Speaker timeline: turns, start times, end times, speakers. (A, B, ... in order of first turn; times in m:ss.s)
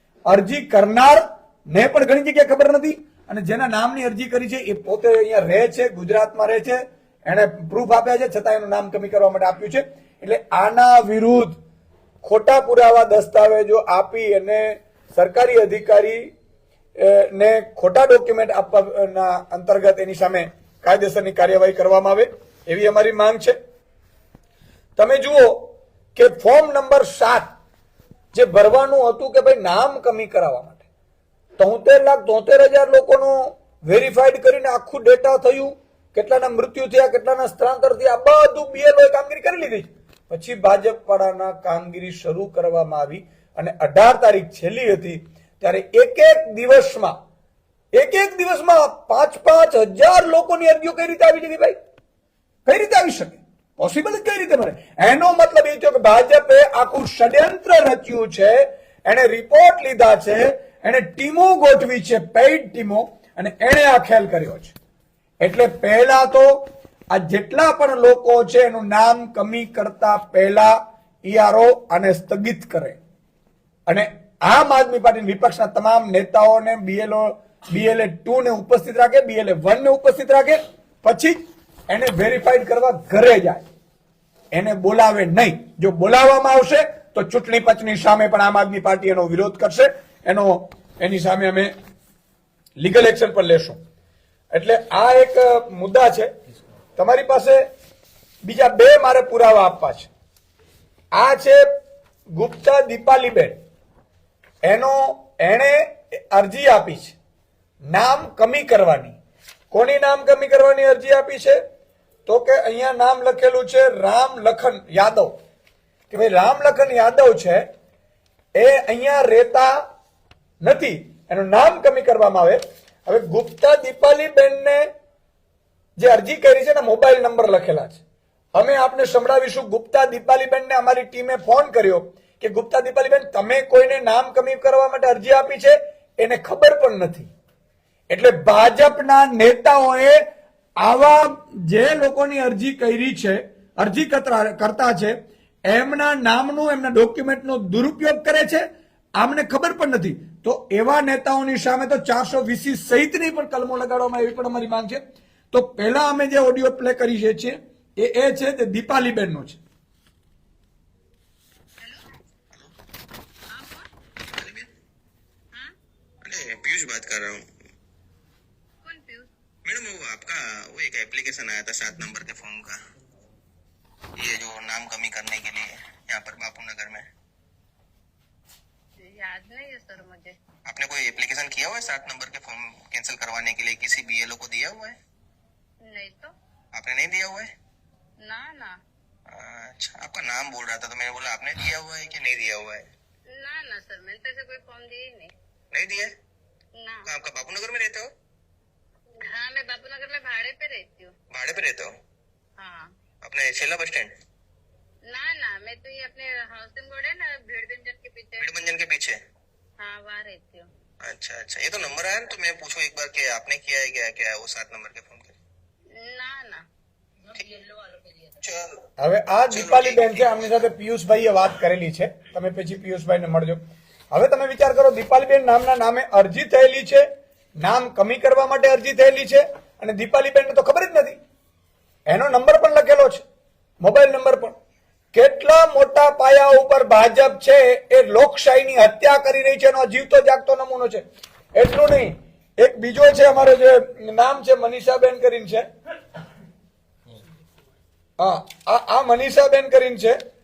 0:00.3-0:11.6 A
0:12.2-0:16.3 A
0:17.0-0:23.6 A
0:25.0-0:27.5 A
0:28.3-0:30.8 A
0:31.6-0:47.2 A
0:47.9-0:51.8 A
0:52.6-1:04.7 A
1:05.4-1:13.0 A
1:13.9-1:23.6 A
1:24.5-1:31.7 A
1:32.8-1:33.8 A
1:34.5-1:36.3 A
1:37.0-1:37.7 A
1:38.4-1:40.1 A
1:41.1-1:41.7 A
1:42.3-1:43.6 A
1:44.6-1:47.1 A
1:47.9-1:49.2 A
1:49.7-1:51.6 A
1:52.2-1:55.3 A
1:56.1-1:57.6 A
1:58.6-1:59.8 A
2:00.6-2:04.9 A
2:06.0-2:08.0 A
2:08.5-2:17.3 A
2:18.1-2:20.2 A
2:20.8-2:39.6 A
2:43.5-2:43.8 B
2:44.3-2:44.7 C
2:46.2-2:47.4 C
2:48.8-2:49.3 B
2:49.6-2:52.7 C
2:54.2-2:57.0 C
2:59.0-3:00.4 B
3:00.7-3:05.0 C
3:05.8-3:06.3 B
3:06.8-3:07.5 C
3:08.2-3:08.7 B
3:09.3-3:12.9 C
3:13.3-3:15.3 B
3:15.7-3:16.1 C
3:16.8-3:17.1 B
3:17.0-3:18.0 C
3:19.2-3:21.1 B
3:21.3-3:21.9 C
3:22.6-3:22.9 B
3:23.2-3:24.1 C
3:25.1-3:28.4 B
3:28.4-3:29.2 C
3:29.8-3:30.7 B
3:31.0-3:35.4 C
3:35.9-3:36.6 B
3:37.3-3:38.4 B
3:39.0-3:47.0 A
3:39.5-3:40.4 C
3:47.6-3:51.2 A
3:52.1-3:53.2 A
3:53.8-3:54.5 A
3:55.1-4:05.6 A
4:08.2-4:10.2 A